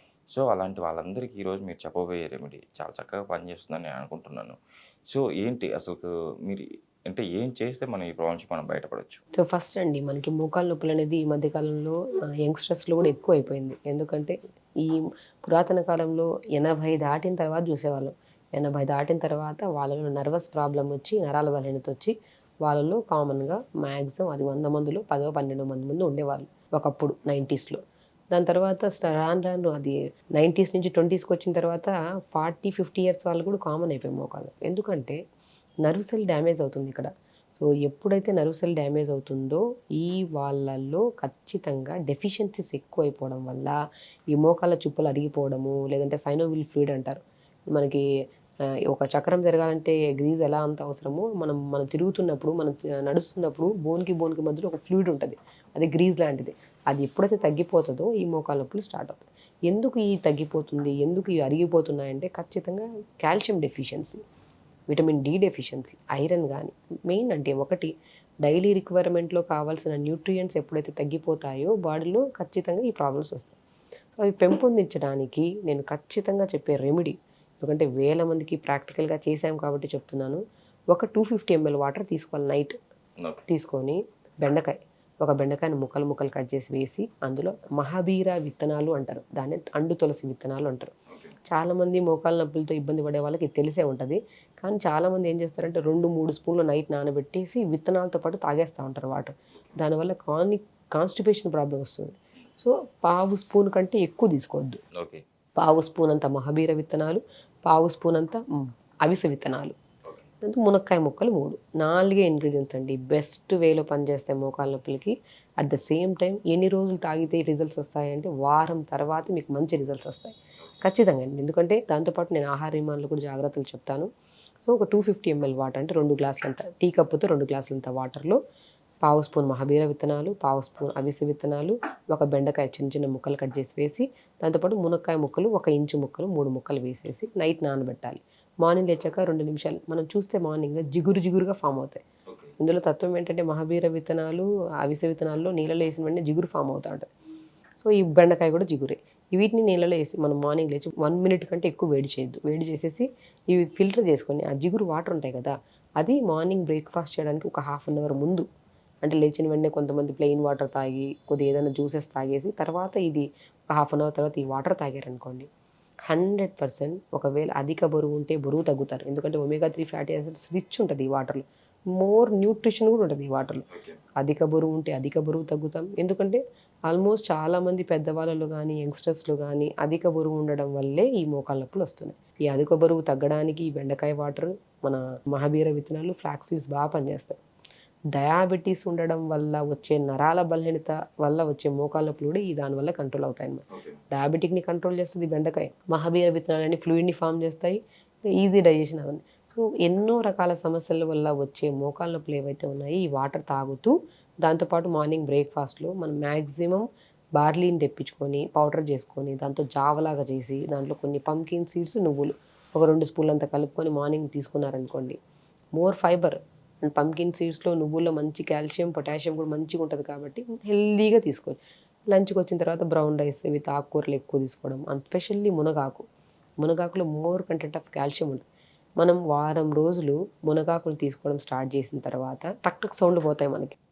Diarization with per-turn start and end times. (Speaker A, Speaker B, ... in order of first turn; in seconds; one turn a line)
Speaker A: 0.3-4.6
Speaker A: 5.1-9.2
Speaker B: 9.3-27.8
Speaker B: 28.3-35.2
Speaker B: 35.8-43.8
Speaker B: 44.3-48.0
Speaker B: 48.9-64.2
Speaker B: 64.9-67.9
Speaker B: 68.4-73.5
Speaker B: 74.2-80.4
Speaker B: 80.9-82.7
Speaker B: 83.5-90.9
Speaker A: 91.1-91.3
Speaker B: 91.5-104.8
Speaker A: 105.0-105.2
Speaker B: 105.6-109.7
Speaker B: 110.4-124.1
Speaker B: 124.6-128.4
Speaker B: 129.0-142.0
Speaker A: 142.3-142.5
Speaker B: 142.6-147.1
Speaker B: 147.8-158.4
Speaker B: 159.0-165.5
Speaker B: 166.1-173.6
Speaker A: 173.7-174.0
Speaker B: 174.2-187.4
Speaker B: 188.1-197.8
Speaker A: 193.7-194.0
Speaker B: 198.3-215.2
Speaker B: 215.8-221.6
Speaker B: 222.1-226.0
Speaker B: 226.6-228.4
Speaker B: 229.0-233.7